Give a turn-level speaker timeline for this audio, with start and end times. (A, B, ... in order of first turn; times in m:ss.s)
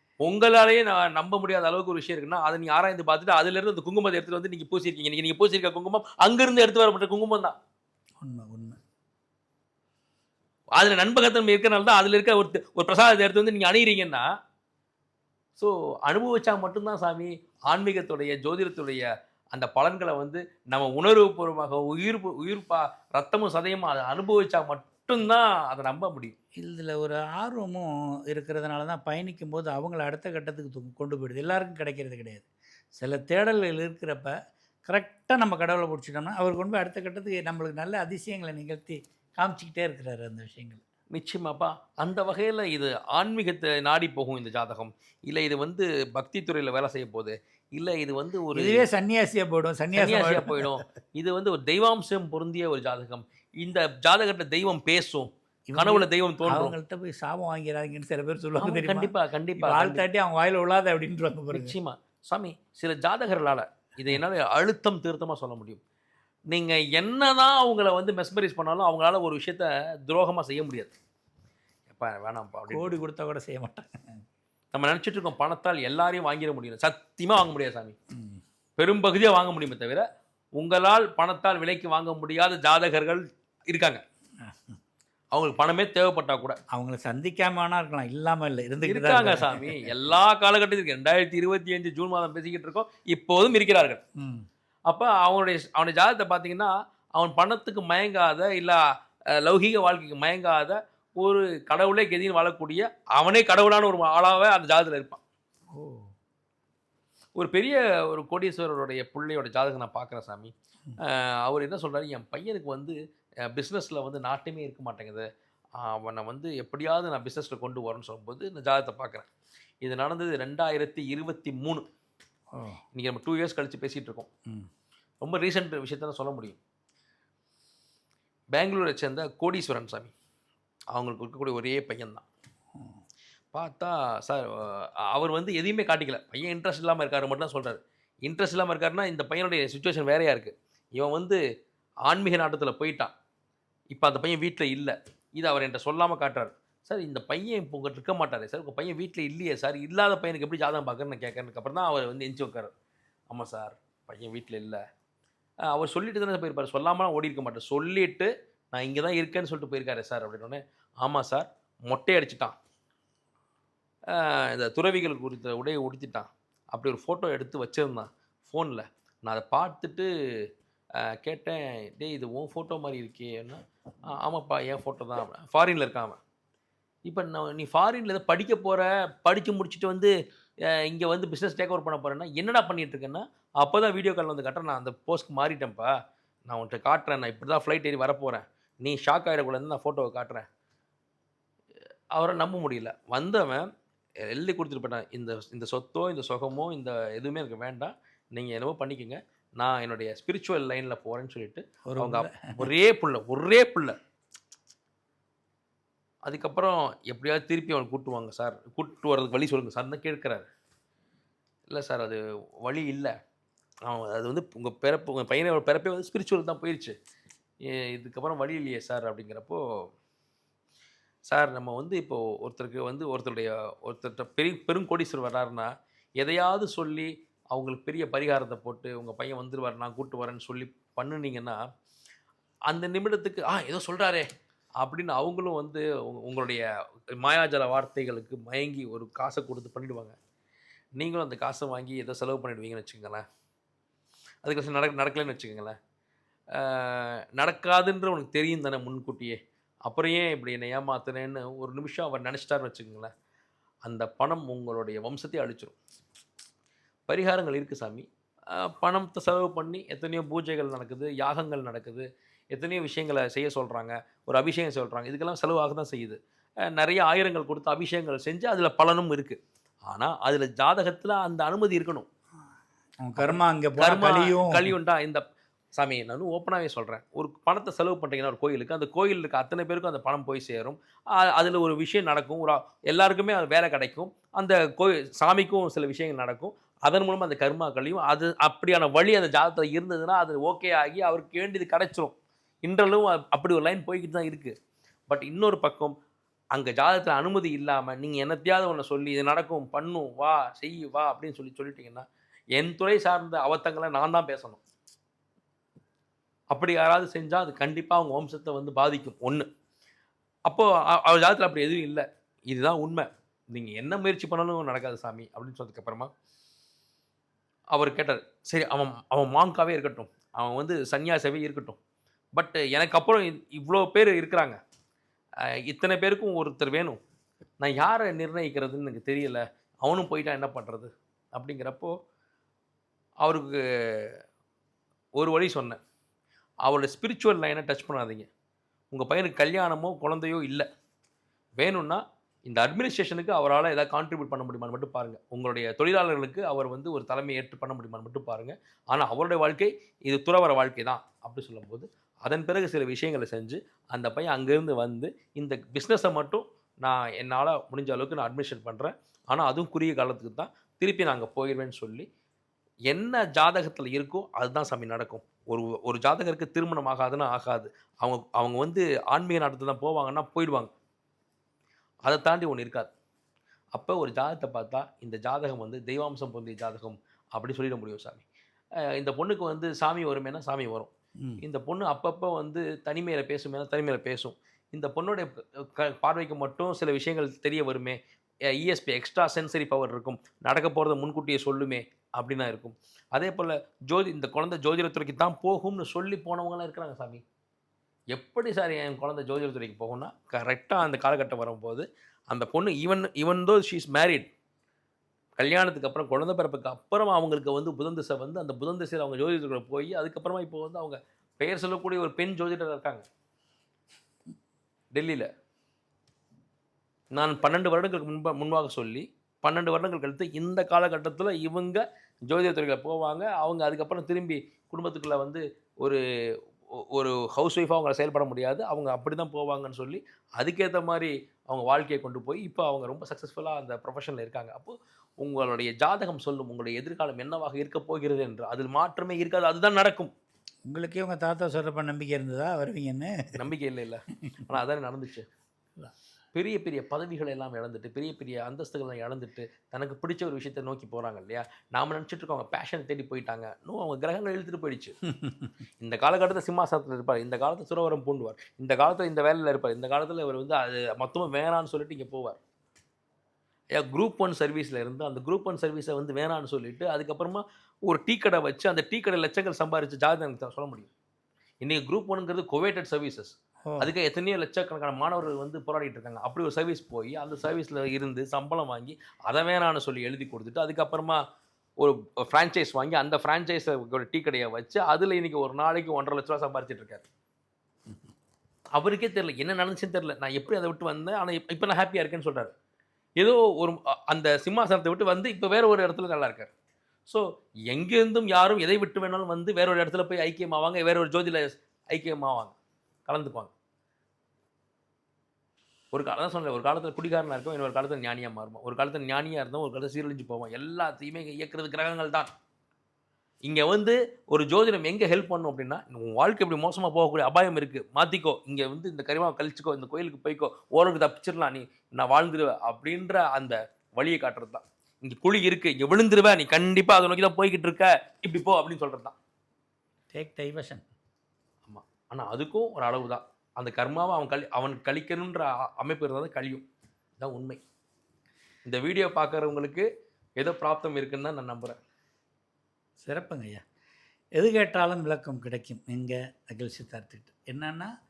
0:00.2-0:07.6 A
0:08.2-0:08.8 B
0:10.8-0:14.3 A
0:15.6-0:26.4 A
0:26.6-0:32.4 B
0:33.0-0:34.3 B
0:34.9-0:40.8 B
0:41.1-0:48.9 A
0:48.5-0:50.8 B
0:50.0-0:56.8 A
0:55.7-1:01.8 B
0:58.6-1:00.0 A
1:01.5-1:05.8 A
1:06.5-1:10.9 A
1:11.9-1:12.9 A
1:12.7-1:13.9 B
1:14.7-1:18.0 A
1:18.8-1:24.0 A
1:24.5-1:24.8 B
1:25.3-1:26.6 A
1:26.7-1:30.1 B
1:28.8-1:34.0 A
1:34.2-1:34.4 B
1:34.9-1:38.8 A
1:39.3-1:45.2 A
1:45.7-1:46.1 B
1:47.4-1:53.0 A
1:53.5-1:55.3 A
1:55.8-1:59.3 A
1:59.8-2:01.8 A
2:02.5-2:02.8 B
2:02.9-2:04.3 A
2:05.2-2:06.6 A
2:08.5-2:10.1 A
2:10.9-2:12.3 A
2:13.5-2:21.4 A
2:22.1-2:23.1 A
2:23.9-2:32.7 A
2:33.3-2:34.8 A
2:35.7-2:42.5 A
2:44.1-2:50.1 A
2:51.1-2:53.6 A
2:54.1-2:56.2 A
2:57.1-3:00.1 A
3:00.7-3:05.9 A
3:06.5-3:10.5 A
3:12.2-3:13.7 A
3:14.2-3:24.0 A
3:21.9-3:22.7 B
3:26.2-3:30.5 A
3:31.7-3:33.2 A
3:33.9-3:37.0 A
3:37.6-3:39.6 A
3:41.3-3:51.6 A
3:52.7-3:54.3 A
3:54.8-4:00.2 A
4:01.0-4:03.2 A
4:04.4-4:05.8 A
4:06.6-4:13.1 A
4:13.9-4:15.8 A
4:17.1-4:32.1 A
4:33.0-4:34.7 B
4:33.2-4:35.2 A
4:35.8-4:54.5 A
4:55.1-4:56.0 A
4:56.6-5:04.6 A
5:06.5-5:09.5 A
5:10.5-5:16.1 A
5:17.7-5:21.8 A
5:22.4-5:24.6 A
5:25.6-5:27.0 A
5:27.6-5:32.0 A
5:33.2-5:34.2 A
5:35.2-5:35.8 A
5:36.6-5:38.3 A
5:38.9-5:40.7 A
5:41.6-6:02.1 A
6:02.9-6:10.7 A
6:12.1-6:12.9 A
6:13.8-6:18.3 A
6:18.8-6:20.9 A
6:21.4-6:28.0 A
6:28.5-6:37.2 A
6:38.1-6:44.3 A
6:45.4-6:53.1 A
6:55.0-6:55.3 A
6:57.1-7:06.0 A
7:06.8-7:20.1 A
7:20.7-7:23.4 B
7:23.4-7:25.3 A
7:26.3-7:35.0 A
7:35.2-7:35.5 B
7:35.8-7:42.4 A
7:43.7-7:50.9 A
7:51.6-8:01.2 A
7:53.7-7:53.9 B
8:01.8-8:07.0 A
8:08.8-8:12.5 A
8:13.2-8:16.5 A
8:17.1-8:22.6 A
8:23.1-8:23.5 A
8:25.9-8:32.3 A
8:33.4-8:49.2 A
8:50.1-8:50.8 B
8:51.6-8:56.6 A
8:57.2-8:57.6 A
8:58.6-8:59.9 A
9:00.4-9:01.8 A
9:03.0-9:03.6 B
9:04.4-9:07.9 B